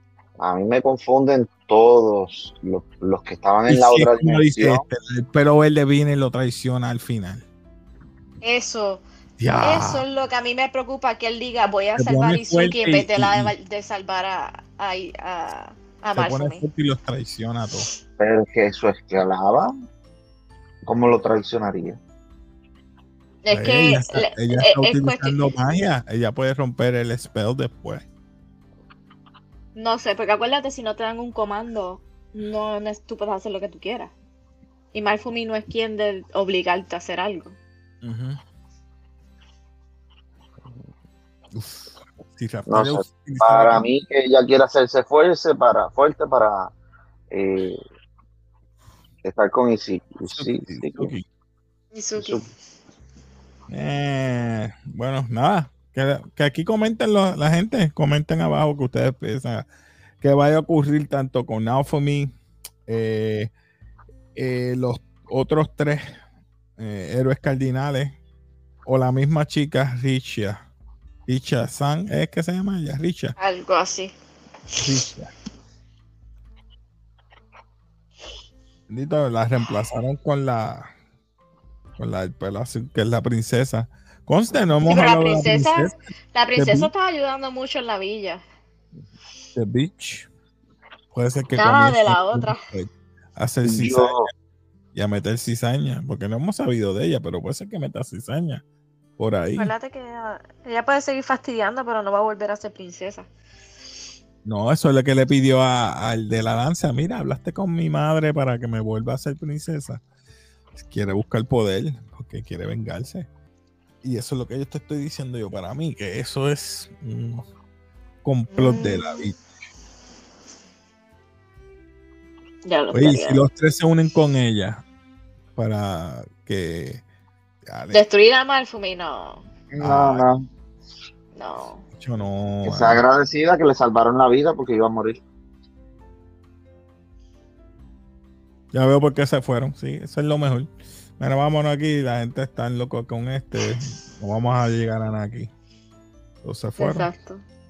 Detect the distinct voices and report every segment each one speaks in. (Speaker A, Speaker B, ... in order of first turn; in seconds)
Speaker A: 0.4-4.8, 18.2-19.7, 20.9-22.0, 42.7-46.7, 47.3-47.8, 49.2-51.1, 52.2-52.4, 93.7-94.3, 129.7-130.4, 132.7-135.2
Speaker B: 3.7-7.5, 9.4-10.0, 12.0-13.5, 16.1-17.9, 23.5-28.1, 38.0-38.4, 41.5-43.9, 50.3-51.2, 53.7-59.7, 60.2-62.3, 62.9-63.5, 64.4-66.2, 66.8-68.2, 68.8-70.6, 71.3-73.4, 74.8-75.3, 78.9-80.9, 82.0-86.0, 86.5-86.9, 89.5-90.3, 91.1-94.3, 94.9-98.6, 99.2-99.7, 104.5-110.0, 110.8-113.3, 114.0-117.4, 118.2-119.4, 122.9-124.8, 125.6-127.0, 127.6-128.0, 129.8-130.2, 131.9-133.0, 138.7-145.5, 146.4-147.1
Speaker C: 8.4-9.0, 9.6-16.7, 23.4-25.5, 29.8-34.1, 34.9-37.6, 51.9-52.4, 73.4-74.2, 84.9-88.4, 91.6-92.6, 99.6-103.3, 118.5-119.3, 122.7-123.5, 127.9-129.5, 131.3-131.8, 146.8-147.4